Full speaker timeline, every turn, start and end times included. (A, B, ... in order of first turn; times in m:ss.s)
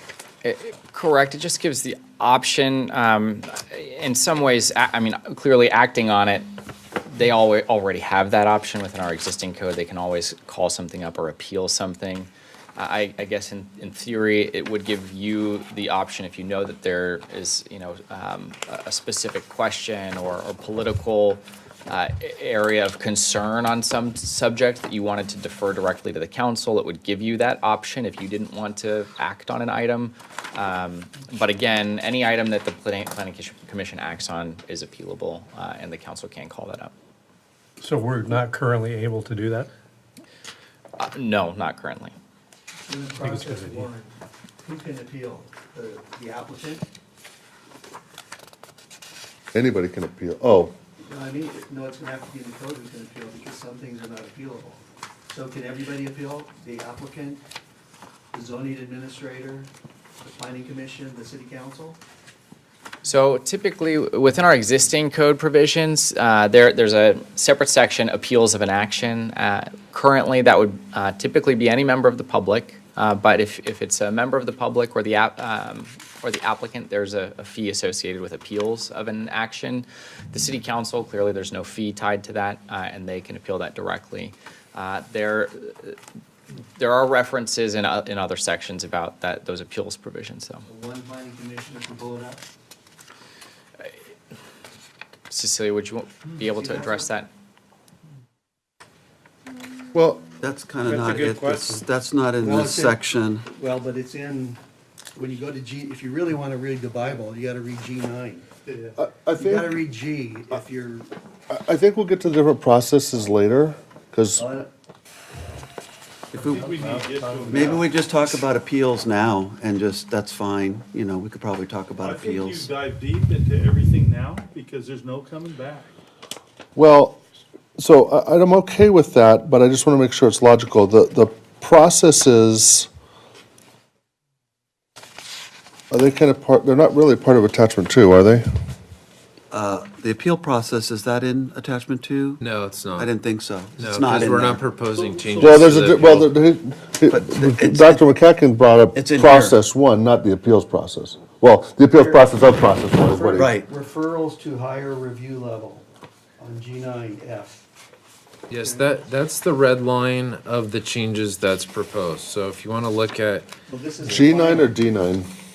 0:00.4-0:06.5 A
0:07.1-0:36.9 A
0:37.8-0:39.7 B
0:41.0-0:42.1 A
0:42.9-0:46.8 C
0:43.2-0:43.9 B
0:49.5-0:50.7 D
0:51.0-0:57.4 C
0:58.3-0:59.7 C
1:00.2-1:02.0 C
1:03.0-1:26.0 A
1:26.8-1:30.6 A
1:30.7-1:32.4 C
1:35.3-1:37.3 A
1:36.4-1:37.1 C
1:39.9-1:40.2 D
1:40.4-1:43.5 E
1:42.4-1:44.6 C
1:45.2-1:48.5 C
1:48.7-1:49.0 F
1:49.0-1:49.8 D
1:49.3-1:51.1 C
1:51.5-1:54.5 D
1:54.4-1:54.7 C
1:56.3-1:56.7 E
1:56.4-1:57.9 F
1:56.6-1:57.6 C
1:57.5-2:02.7 E
2:02.0-2:05.9 F
2:06.8-2:07.2 D
2:07.8-2:12.9 D
2:15.9-2:18.4 D
2:19.5-2:22.4 E
2:22.4-2:23.1 G
2:23.0-2:26.0 E
2:23.8-2:26.3 G
2:25.4-2:33.5 D
2:27.1-2:28.0 E
2:28.9-2:29.6 E
2:32.0-2:32.4 C
2:32.9-2:35.9 C
2:33.4-2:33.7 E
2:36.4-2:37.6 C
2:38.5-2:43.5 G
2:38.6-2:38.9 C
2:43.7-2:44.7 C
2:44.0-2:45.3 D